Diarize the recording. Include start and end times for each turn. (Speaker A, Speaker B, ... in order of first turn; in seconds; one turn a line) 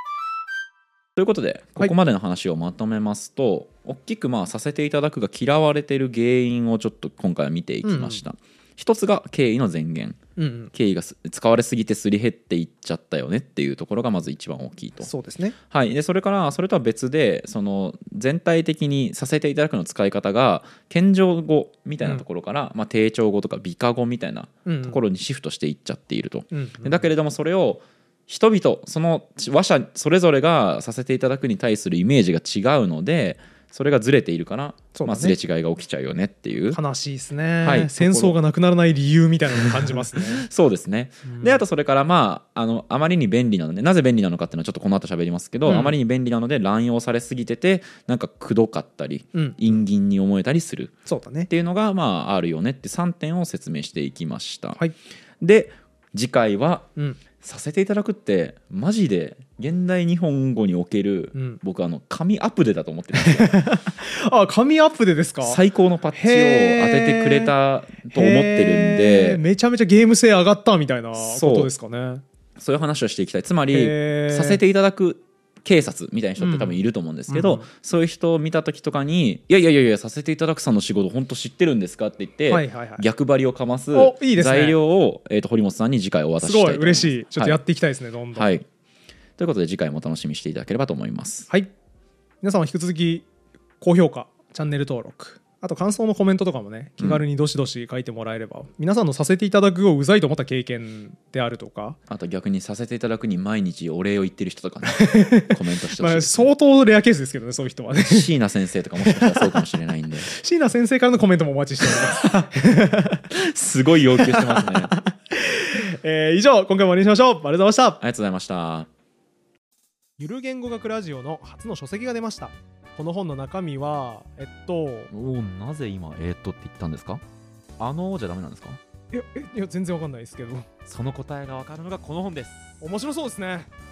Speaker A: 1.1-10.2
Speaker B: 7.8-8.2
Speaker B: 10.4-10.7
Speaker A: 10.7-15.1
Speaker B: 15.0-15.6
Speaker A: 15.7-36.8
Speaker B: 24.6-25.0
Speaker B: 26.5-27.0
Speaker B: 34.9-35.4
Speaker B: 36.7-40.5
Speaker A: 37.6-38.4
Speaker A: 39.6-50.9
Speaker B: 41.2-41.6
Speaker B: 45.6-45.9
Speaker B: 51.0-51.5
Speaker A: 51.5-54.8
Speaker A: 55.4-56.9
Speaker A: 57.4-63.6
Speaker B: 63.1-65.6
Speaker A: 65.4-69.4
Speaker B: 66.1-67.5
Speaker B: 68.1-72.2
Speaker A: 71.2-71.7
Speaker A: 72.6-87.6
Speaker B: 73.7-74.6
Speaker B: 76.4-77.7
Speaker B: 82.5-83.0
Speaker B: 83.9-84.8
Speaker B: 86.4-88.5
Speaker A: 88.3-88.7
Speaker A: 89.4-91.5
Speaker B: 92.4-93.3
Speaker B: 93.8-102.0
Speaker A: 102.1-106.5
Speaker B: 104.9-108.3
Speaker A: 108.0-110.3
Speaker B: 109.0-109.7
Speaker B: 110.2-113.3
Speaker A: 113.3-114.9
Speaker B: 114.2-118.0
Speaker A: 118.0-118.9
Speaker B: 120.2-125.1
Speaker A: 125.1-127.2
Speaker A: 127.8-128.8
Speaker B: 129.1-130.7
Speaker A: 130.8-132.7
Speaker B: 132.8-133.7